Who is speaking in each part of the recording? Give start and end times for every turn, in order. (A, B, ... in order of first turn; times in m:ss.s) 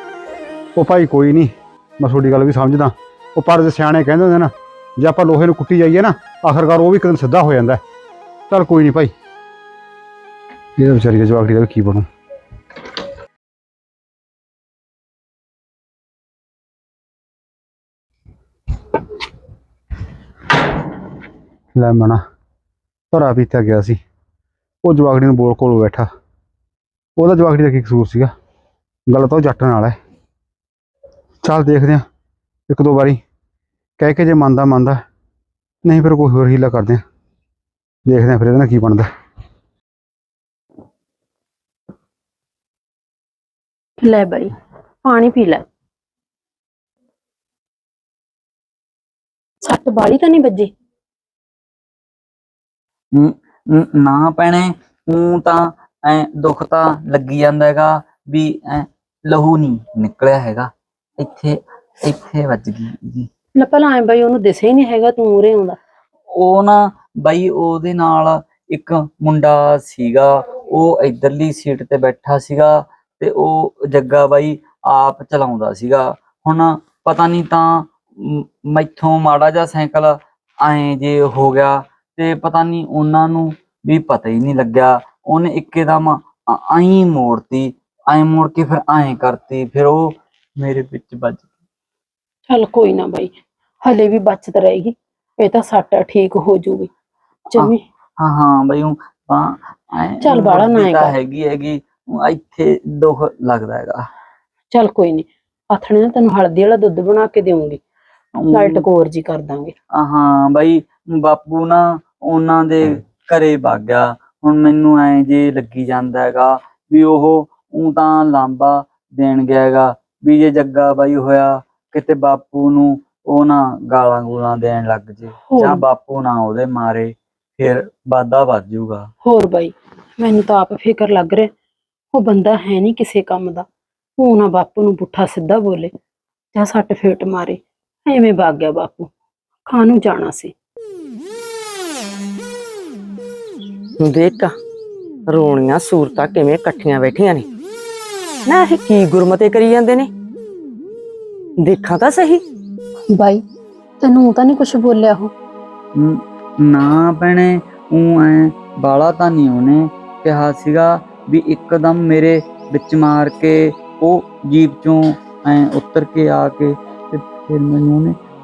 0:00.8-0:07.8 A
0:08.5-0:09.1 A
0:10.8-0:12.0 A
0:21.8-0:22.2 A
0:23.1-0:24.0 A
0:24.8-0:26.1 A
0:27.2-0:28.3 A
0:29.1-0:30.0 A
0:31.4-0:32.0 A
0:32.7-0:33.2 A
0:34.0-0:35.0 A
0:35.8-0:37.0 A
0:38.1-0:39.1 A
0:44.0-0:44.5 B
0:45.0-0:45.6 B
0:49.6-0:50.7 B
0:53.1-1:03.3 C
1:03.6-1:05.8 B
1:06.4-1:31.5 C
1:32.5-1:36.9 B
1:37.5-1:37.8 B
1:37.6-1:44.0 C
1:40.2-1:41.1 B
1:44.7-1:47.8 B
1:48.4-1:48.8 C
1:48.5-1:49.7 B
1:49.9-2:09.1 C
2:05.5-2:05.8 B
2:09.2-2:11.5 B
2:12.1-2:13.6 B
2:14.2-2:15.9 B
2:16.6-2:19.1 B
2:19.7-2:20.5 B
2:24.0-2:24.6 D
2:25.3-2:27.5 D
2:28.5-2:30.1 D
2:31.6-2:32.4 D
2:33.2-2:33.4 B
2:34.0-2:35.3 B
2:36.0-2:48.2 C